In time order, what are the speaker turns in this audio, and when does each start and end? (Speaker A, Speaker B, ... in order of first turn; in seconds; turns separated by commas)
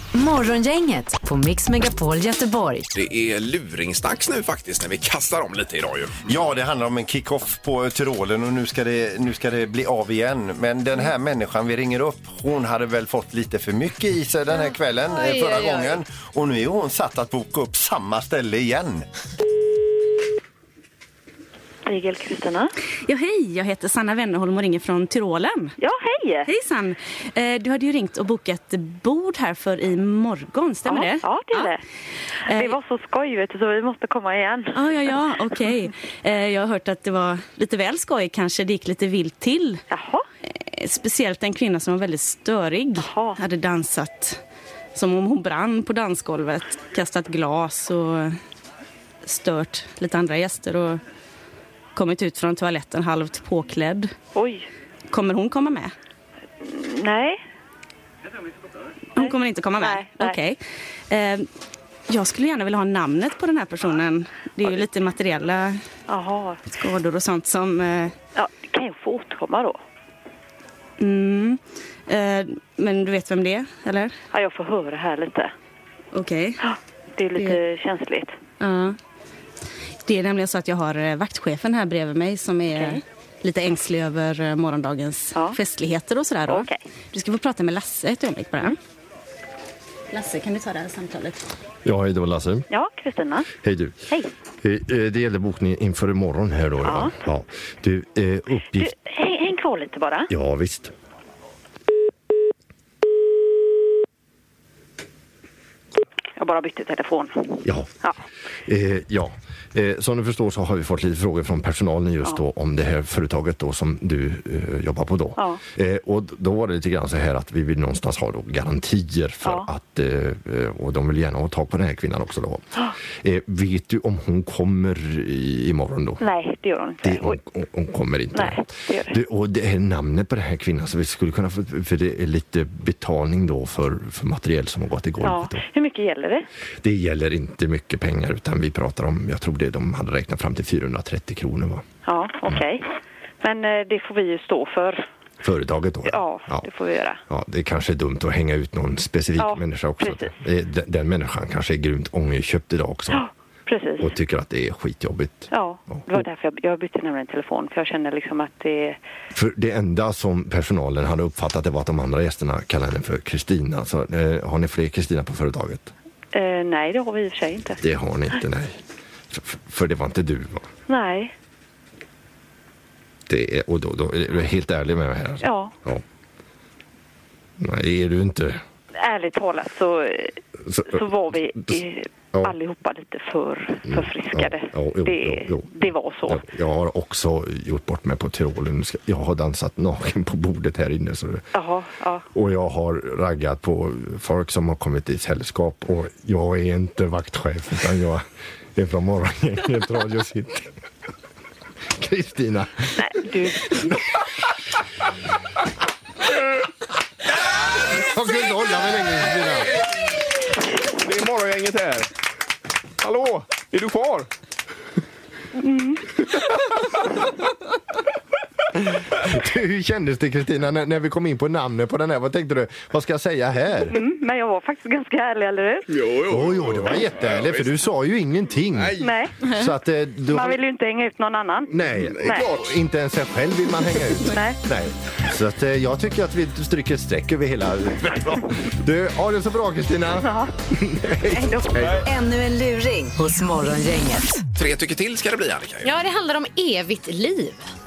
Speaker A: 0.1-2.9, Speaker B: 2.9-6.2, Speaker C: 6.3-19.0, Speaker D: 14.5-16.0, Speaker E: 21.8-22.7, Speaker F: 23.0-25.8, Speaker E: 25.8-26.5, Speaker F: 26.5-31.7, Speaker E: 30.9-31.8, Speaker E: 32.5-35.2, Speaker F: 32.5-32.8, Speaker F: 34.7-39.8, Speaker E: 39.9-40.2, Speaker F: 40.5-44.4, Speaker E: 43.0-43.4, Speaker F: 44.9-48.4, Speaker F: 49.2-51.0, Speaker F: 51.9-54.1, Speaker E: 54.3-54.7, Speaker F: 55.1-55.9, Speaker E: 56.6-57.4, Speaker F: 59.1-60.6, Speaker E: 59.2-60.4, Speaker F: 61.1-61.5, Speaker F: 62.1-65.8, Speaker E: 66.1-66.7, Speaker F: 66.7-68.1, Speaker E: 68.3-69.8, Speaker F: 71.0-74.1, Speaker E: 74.3-75.5, Speaker F: 76.1-76.6, Speaker E: 76.6-78.3, Speaker F: 78.6-79.0, Speaker F: 80.0-88.8, Speaker E: 82.7-83.0, Speaker E: 85.3-85.6, Speaker E: 86.5-86.8, Speaker F: 90.1-91.4, Speaker G: 91.8-92.7, Speaker E: 92.7-93.5, Speaker G: 93.6-93.9, Speaker G: 94.6-98.9, Speaker E: 96.8-97.2, Speaker E: 98.7-100.3, Speaker G: 100.3-100.9, Speaker E: 106.4-108.2, Speaker G: 107.6-107.9, Speaker G: 108.7-122.6, Speaker E: 119.4-119.7, Speaker G: 123.2-126.2, Speaker E: 126.2-127.4, Speaker G: 127.0-135.6, Speaker E: 128.3-129.2, Speaker E: 135.2-136.4, Speaker G: 136.8-141.8, Speaker E: 142.0-142.8, Speaker E: 143.4-145.1, Speaker G: 145.4-146.7, Speaker E: 146.1-147.2, Speaker G: 147.3-153.2, Speaker E: 149.4-150.3, Speaker E: 153.1-154.1, Speaker G: 154.0-156.2, Speaker E: 155.5-159.0, Speaker G: 159.3-165.9, Speaker E: 166.3-167.8, Speaker G: 167.8-168.8, Speaker G: 169.3-170.7, Speaker E: 170.9-171.3, Speaker G: 173.3-176.0, Speaker E: 175.4-175.7, Speaker G: 177.6-178.6, Speaker E: 178.9-186.4, Speaker G: 180.6-181.0, Speaker G: 183.9-185.7, Speaker G: 186.3-191.4, Speaker E: 191.5-192.2, Speaker G: 192.3-200.7, Speaker G: 202.0-202.9, Speaker E: 203.0-203.9, Speaker G: 208.0-209.7, Speaker B: 211.0-212.1, Speaker B: 213.0-214.3, Speaker E: 215.6-216.0, Speaker G: 218.9-224.0, Speaker E: 223.9-225.8, Speaker B: 225.9-227.8, Speaker G: 226.2-230.6, Speaker B: 228.7-229.0, Speaker E: 228.9-229.7, Speaker E: 230.3-232.5, Speaker G: 231.7-242.1, Speaker B: 232.1-232.6, Speaker E: 234.2-234.6, Speaker E: 240.2-240.5, Speaker E: 241.3-241.9, Speaker A: 242.0-244.3, Speaker B: 244.5-245.9, Speaker D: 245.8-247.6